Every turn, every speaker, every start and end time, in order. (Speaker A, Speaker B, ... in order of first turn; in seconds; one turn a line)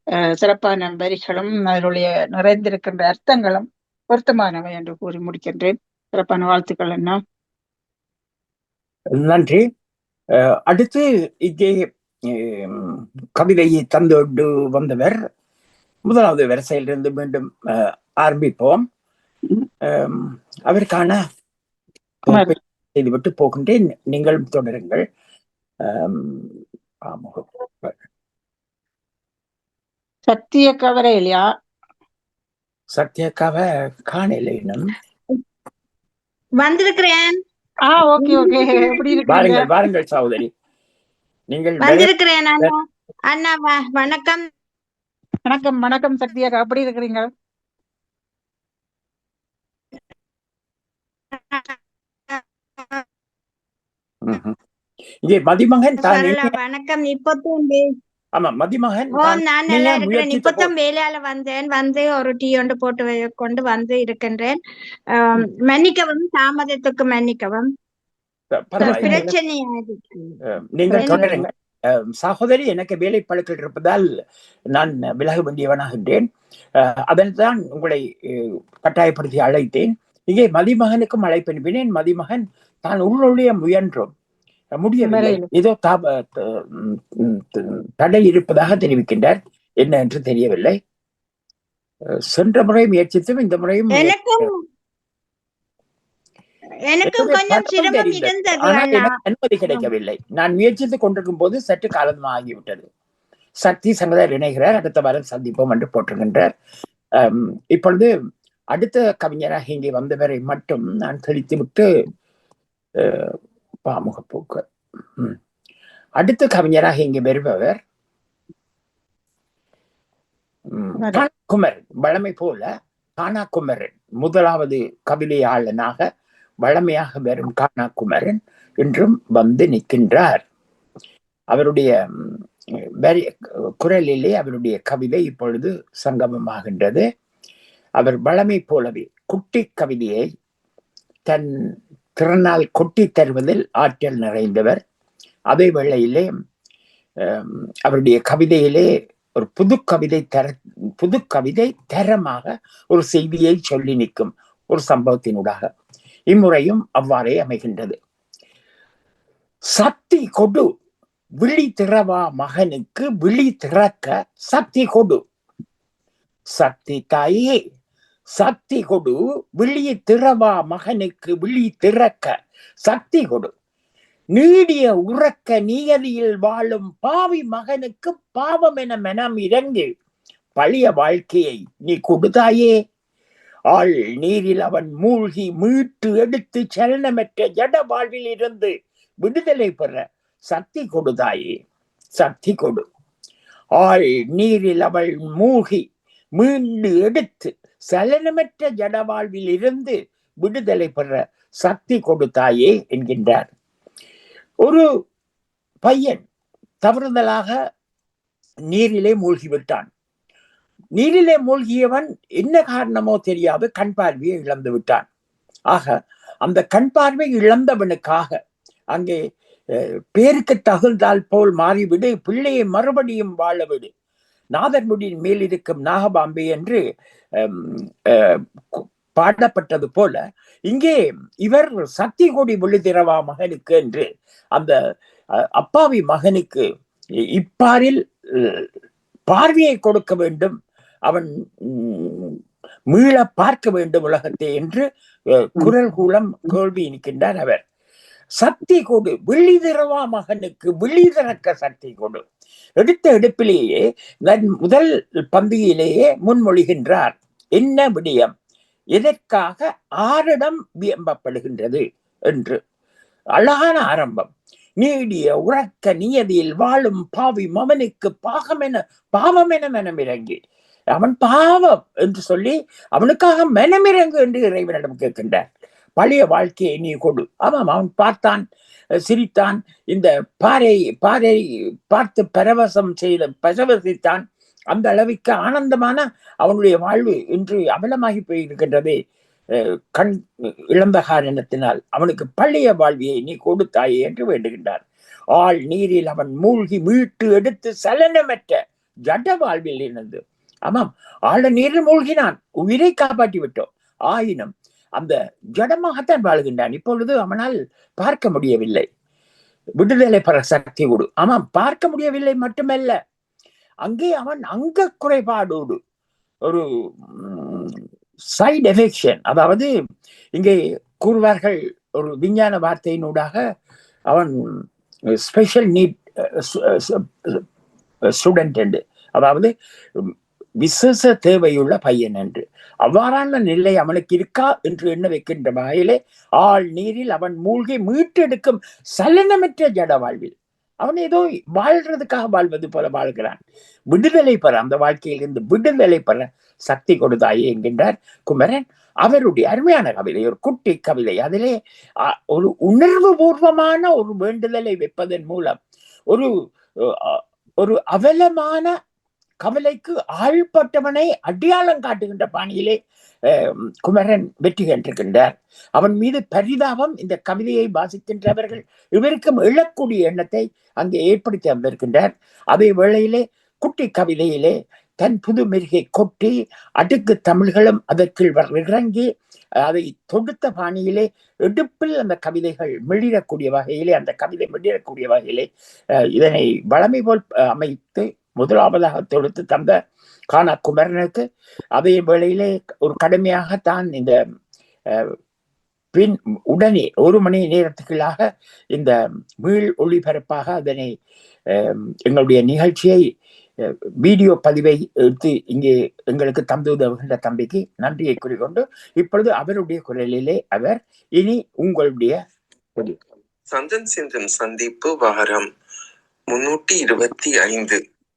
Speaker A: 0.4-7.2
Speaker B: 9.2-9.6
Speaker B: 10.4-15.2
Speaker B: 16.1-18.8
Speaker B: 19.9-21.2
Speaker B: 22.3-25.0
Speaker A: 22.3-22.5
Speaker B: 25.9-26.6
Speaker B: 27.1-27.9
Speaker A: 30.3-31.4
Speaker B: 32.9-34.9
Speaker C: 36.6-37.4
Speaker A: 37.9-39.6
Speaker C: 38.2-39.2
Speaker B: 39.3-40.5
Speaker B: 41.5-42.1
Speaker C: 41.8-42.8
Speaker C: 43.3-44.5
Speaker A: 45.5-47.3
Speaker C: 51.3-51.8
Speaker C: 52.3-53.0
Speaker B: 54.2-54.5
Speaker B: 55.2-56.5
Speaker C: 56.0-57.8
Speaker B: 58.4-60.7
Speaker C: 59.2-64.6
Speaker C: 65.1-67.7
Speaker B: 68.5-69.3
Speaker C: 68.8-70.4
Speaker A: 68.8-69.2
Speaker B: 70.5-74.1
Speaker C: 70.9-71.5
Speaker B: 74.7-76.2
Speaker B: 76.8-84.1
Speaker B: 84.8-90.7
Speaker A: 85.0-85.5
Speaker B: 92.3-94.5
Speaker C: 94.0-94.5
Speaker C: 96.9-99.1
Speaker B: 97.0-102.9
Speaker B: 103.6-106.5
Speaker B: 107.2-108.1
Speaker B: 108.7-111.9
Speaker B: 113.0-113.3
Speaker B: 113.9-114.6
Speaker B: 116.2-117.8
Speaker B: 120.7-122.7
Speaker B: 123.2-126.0
Speaker B: 126.6-130.4
Speaker B: 131.5-132.4
Speaker B: 133.8-137.0
Speaker B: 138.0-140.2
Speaker B: 142.2-144.8
Speaker B: 145.5-146.3
Speaker B: 147.2-148.9
Speaker B: 149.4-155.7
Speaker B: 156.3-158.0
Speaker B: 159.7-160.7
Speaker B: 161.4-165.2
Speaker B: 166.6-167.6
Speaker B: 168.3-172.3
Speaker B: 172.8-173.5
Speaker B: 174.3-179.9
Speaker B: 180.6-182.7
Speaker B: 183.7-188.7
Speaker B: 189.2-191.5
Speaker B: 192.2-192.8
Speaker B: 193.8-195.8
Speaker B: 196.4-203.5
Speaker B: 205.8-206.2
Speaker B: 206.8-207.5
Speaker B: 208.7-209.9
Speaker B: 211.0-215.1
Speaker B: 216.4-218.3
Speaker B: 218.9-219.2
Speaker B: 220.2-223.9
Speaker B: 224.5-226.8
Speaker B: 227.4-230.2
Speaker B: 230.7-234.0
Speaker B: 235.4-236.6
Speaker B: 237.4-238.7
Speaker B: 239.3-240.5
Speaker B: 241.1-242.4
Speaker B: 242.9-244.8
Speaker B: 245.3-247.6
Speaker B: 248.4-252.2
Speaker B: 252.8-253.7
Speaker B: 254.3-258.3
Speaker B: 258.9-262.6
Speaker B: 263.4-264.3
Speaker B: 264.8-270.4
Speaker B: 270.9-275.4
Speaker B: 276.0-278.4
Speaker B: 279.0-288.9
Speaker B: 290.7-294.8
Speaker B: 295.4-298.6
Speaker B: 299.1-308.9
Speaker B: 309.8-312.9
Speaker B: 313.8-315.8
Speaker B: 316.5-317.8
Speaker B: 318.4-319.7
Speaker B: 320.4-323.4
Speaker B: 325.2-325.9
Speaker B: 326.4-327.4
Speaker B: 328.2-340.3
Speaker B: 340.8-343.4
Speaker B: 343.9-351.5
Speaker B: 352.1-355.6
Speaker B: 357.0-358.7
Speaker B: 359.4-362.8
Speaker B: 363.3-379.1
Speaker B: 379.6-385.5
Speaker B: 386.1-389.7
Speaker B: 390.3-391.2
Speaker B: 391.8-394.1
Speaker B: 395.9-398.2
Speaker B: 398.7-400.9
Speaker B: 401.5-403.0
Speaker B: 403.6-412.2
Speaker D: 413.5-415.5
Speaker D: 416.3-417.8